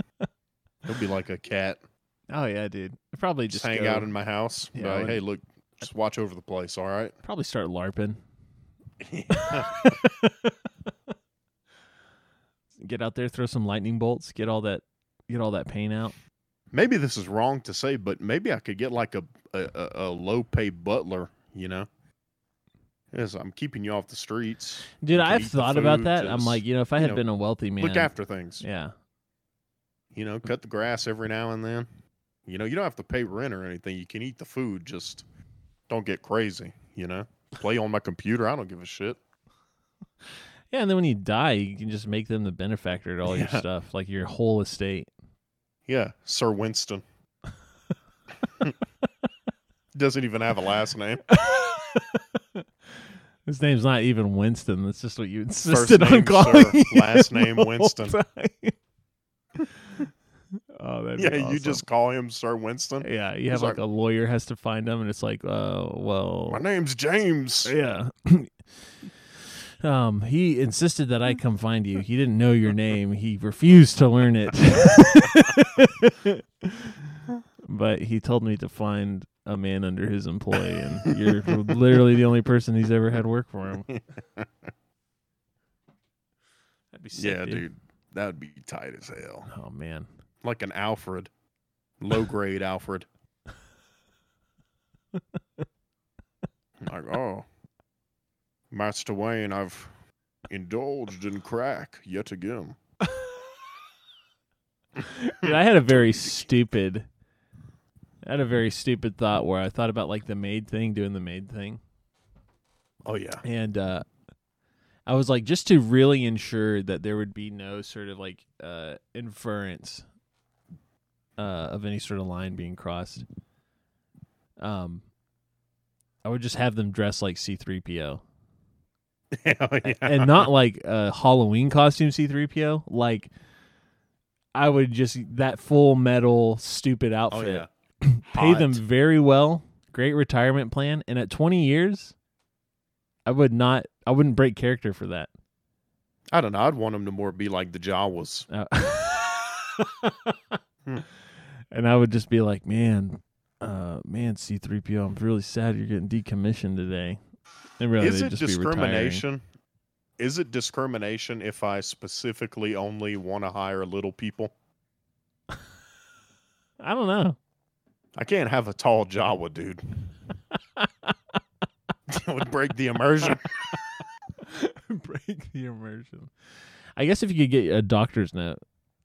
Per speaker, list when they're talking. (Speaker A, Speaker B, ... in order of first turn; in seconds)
Speaker A: 0.9-1.8, 3.5-7.1, 9.0-9.9, 16.7-21.9, 23.1-27.2, 27.8-28.6, 30.1-31.9, 32.5-35.2, 35.9-39.2, 43.3-43.6, 45.9-47.0, 50.0-51.2, 55.7-58.2, 61.2-63.8, 66.5-67.8, 81.0-81.7, 83.9-84.5, 87.2-89.5, 90.4-91.3, 92.0-93.1, 96.8-97.5, 98.7-99.9, 100.5-102.8, 105.4-106.3, 113.0-113.4, 129.3-130.5, 137.3-137.7, 138.3-138.8, 146.3-148.5, 158.0-159.4, 160.2-164.5, 168.2-170.1, 172.1-173.5
Speaker B: 2.3-4.1, 4.7-5.2, 7.2-8.2, 9.3-10.7, 12.8-16.2, 25.0-28.9, 40.7-45.1, 51.3-52.6, 53.5-58.8, 59.6-60.1, 60.8-61.8, 63.0-66.6, 67.7-69.1, 69.8-77.0, 77.6-83.9, 86.9-87.7, 89.5-90.1, 105.0-107.1, 108.2-111.8, 113.4-114.1, 115.1-120.1, 121.4-123.3, 124.6-125.1, 126.2-128.2, 129.9-133.3, 134.6-142.2, 143.3-145.3, 148.5-150.6, 151.7-157.2, 157.8-159.2, 166.8-167.4, 170.8-171.2, 174.4-176.3, 177.0-178.6